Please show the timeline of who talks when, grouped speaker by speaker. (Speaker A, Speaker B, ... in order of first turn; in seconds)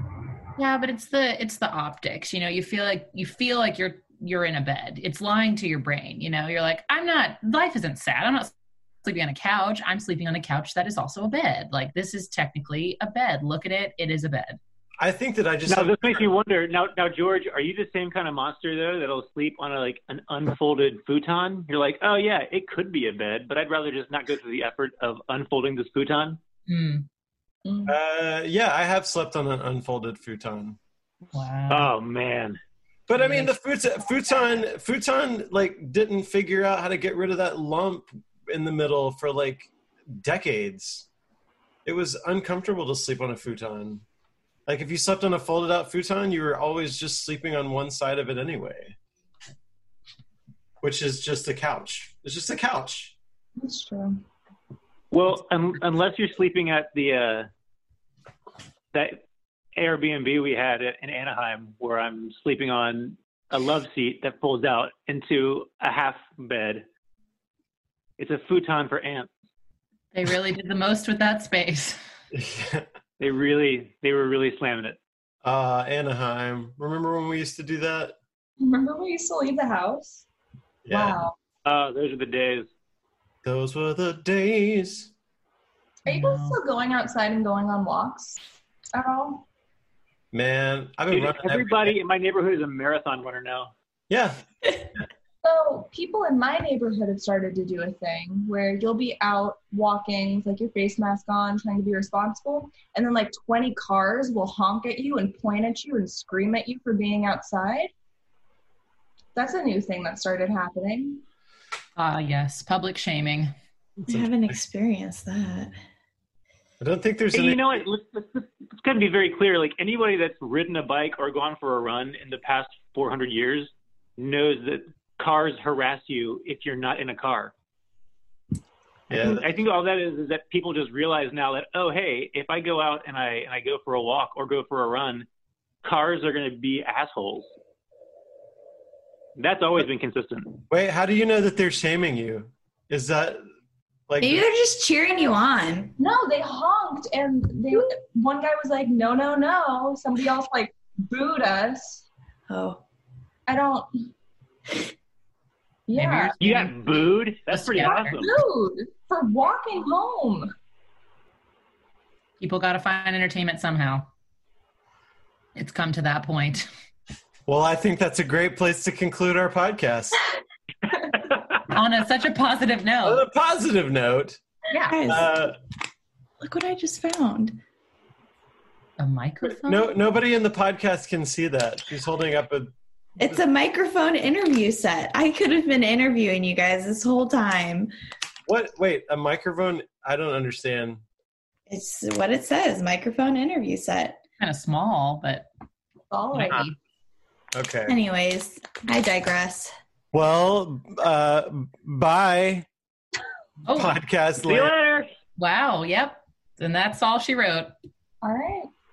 Speaker A: 0.6-8.5, 9.0-14.6, 26.7-27.1, 31.3-31.9, 33.1-33.5, 70.1-72.0, 86.1-86.6, 112.0-113.5, 155.9-156.8, 157.5-158.3, 162.4-164.1, 165.6-166.7, 171.7-173.2, 174.7-175.0, 179.0-179.9, 194.4-195.5, 196.3-196.8, 203.7-204.0, 205.4-207.7
Speaker B: 15.0-16.3, 27.9-30.8, 33.1-41.1, 41.9-44.0, 44.7-49.0, 50.8-53.1, 72.3-72.9, 75.4-78.2, 80.9-81.2, 83.4-85.1, 90.3-91.9, 94.1-94.4, 114.1-114.6, 116.8-117.8, 129.1-129.5, 140.7-143.4, 144.1-144.4, 167.5-170.2, 173.0-174.4, 175.1-175.6, 179.6-183.4, 188.5-191.0, 197.5-198.0, 200.1-202.7, 203.7-204.8
Speaker C: 15.7-26.4, 31.7-32.6, 55.1-57.5, 58.9-59.2, 59.8-66.9, 68.2-69.3, 73.2-75.0, 81.7-82.7, 91.1-93.7, 117.3-127.5, 129.1-135.3, 135.8-137.5, 139.4-140.6, 156.4-158.3, 204.4-205.1
Speaker D: 27.6-27.9, 53.6-54.2, 78.6-80.3, 80.9-81.4, 86.1-88.4, 88.9-89.5, 95.4-107.9, 109.3-111.2, 146.0-152.1, 153.5-154.1, 155.9-156.4, 157.8-160.5, 196.1-196.7, 208.2-208.7
Speaker E: 114.0-115.8, 144.2-145.9, 152.5-152.8, 174.9-175.3, 176.4-177.6, 183.2-187.9, 191.7-194.2, 197.9-199.7